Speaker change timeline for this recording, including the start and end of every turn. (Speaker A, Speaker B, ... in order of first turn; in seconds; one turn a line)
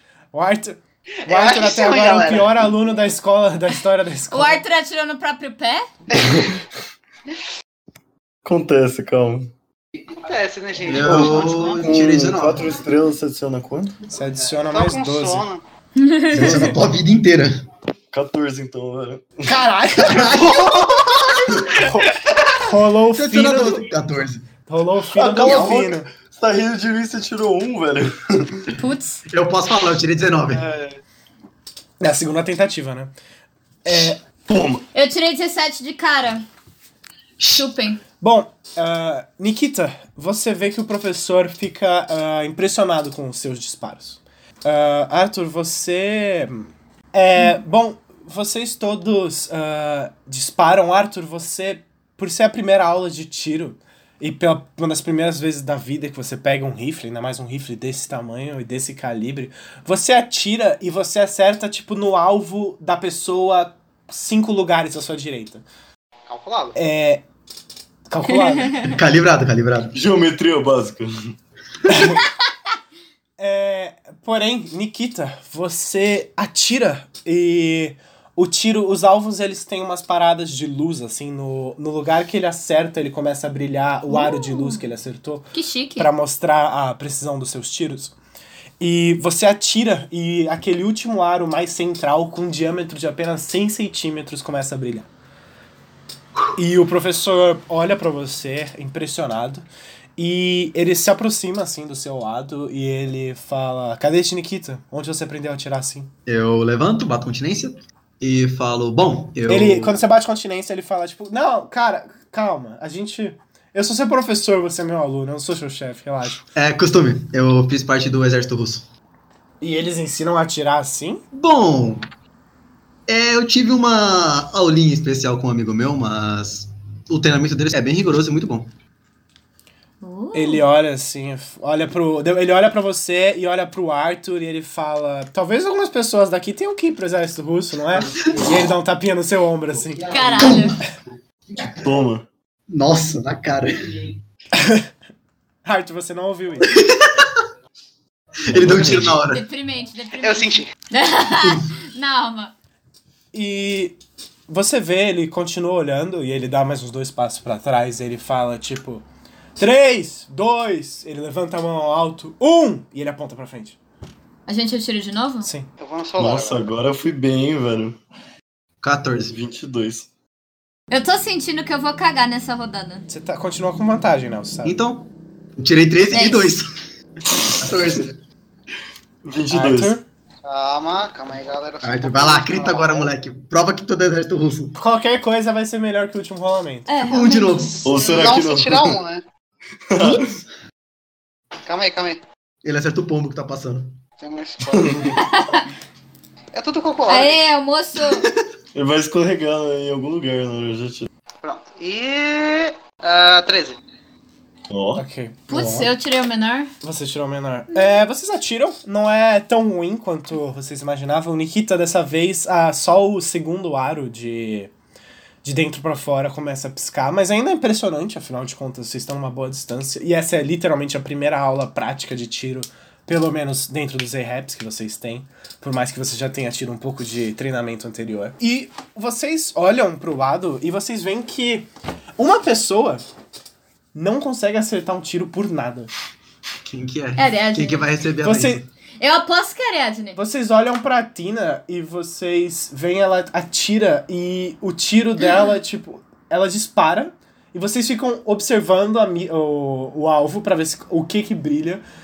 Speaker A: 0.3-4.6
Speaker B: 1.2-2.7
Speaker C: 4.3-5.9
Speaker D: 6.2-6.6
Speaker D: 8.4-9.5
Speaker B: 10.1-11.9
Speaker E: 10.8-12.7
Speaker D: 10.9-14.0
Speaker A: 14.1-15.5
Speaker B: 14.7-15.6
Speaker C: 16.0-16.6
Speaker E: 16.3-17.6
Speaker D: 16.3-16.8
Speaker A: 16.4-16.8
Speaker D: 18.1-19.6
Speaker A: 19.5-20.3
Speaker E: 20.0-21.8
Speaker B: 20.4-21.5
Speaker A: 21.8-23.9
Speaker E: 23.1-24.5
Speaker A: 24.7-26.1
Speaker D: 25.1-28.7
Speaker C: 28.8-29.2
Speaker E: 29.3-30.7
Speaker D: 30.5-31.0
Speaker A: 32.0-33.1
Speaker A: 33.9-34.2
Speaker D: 34.5-34.9
Speaker C: 34.9-36.5
Speaker E: 37.4-37.6
Speaker C: 37.5-38.0
Speaker A: 38.2-65.7
Speaker B: 66.3-66.8
Speaker A: 66.8-67.2
Speaker A: 68.1-68.8
Speaker E: 68.8-70.0
Speaker D: 69.9-71.3
Speaker A: 71.9-72.2
Speaker A: 73.4-88.2
Speaker C: 84.1-84.8
Speaker C: 85.5-86.1
Speaker A: 88.8-95.1
Speaker A: 96.6-99.7
Speaker A: 100.2-106.1
Speaker E: 106.3-110.0
Speaker A: 109.5-116.4
Speaker E: 116.5-118.9
Speaker A: 119.6-121.2
Speaker E: 121.3-122.1
Speaker E: 123.1-128.7
Speaker C: 130.0-130.6
Speaker A: 130.3-140.1
Speaker E: 138.0-138.6
Speaker C: 140.1-140.8
Speaker E: 140.1-140.8
Speaker E: 141.5-141.8
Speaker D: 141.8-142.3
Speaker E: 142.7-144.2
Speaker A: 144.6-144.9
Speaker A: 145.7-146.8
Speaker E: 146.7-147.3
Speaker E: 148.5-149.4
Speaker D: 148.5-149.2
Speaker C: 149.3-152.5
Speaker B: 150.1-150.7
Speaker E: 151.4-151.7
Speaker A: 153.3-154.0
Speaker A: 154.5-159.1
Speaker A: 159.6-163.8
Speaker C: 164.5-165.5
Speaker A: 165.4-165.7
Speaker B: 165.8-166.7
Speaker D: 166.2-168.0
Speaker E: 168.8-169.3
Speaker D: 169.2-170.1
Speaker C: 170.9-173.1
Speaker A: 173.1-174.8
Speaker E: 174.6-176.7
Speaker C: 176.1-176.5
Speaker E: 177.3-178.2
Speaker D: 179.2-180.0
Speaker A: 179.5-180.0
Speaker B: 180.4-183.1
Speaker E: 181.8-184.8
Speaker A: 184.8-186.9
Speaker C: 186.9-187.7
Speaker E: 187.1-188.2
Speaker D: 187.8-189.0
Speaker B: 188.0-189.2
Speaker D: 189.9-190.3
Speaker E: 190.0-190.4
Speaker B: 191.7-192.2
Speaker E: 192.6-194.0
Speaker B: 194.2-195.2
Speaker D: 194.7-195.2
Speaker C: 195.2-195.6
Speaker B: 196.5-197.4
Speaker C: 197.1-198.3
Speaker D: 198.8-201.1
Speaker B: 201.4-203.8
Speaker D: 204.7-205.0
Speaker A: 205.0-205.9
Speaker C: 205.5-206.7
Speaker A: 206.8-214.7
Speaker A: 215.4-233.1
Speaker A: 233.9-235.9
Speaker E: 236.6-238.7
Speaker C: 237.2-237.9
Speaker A: 238.2-238.7
Speaker C: 239.0-240.2
Speaker A: 240.2-251.8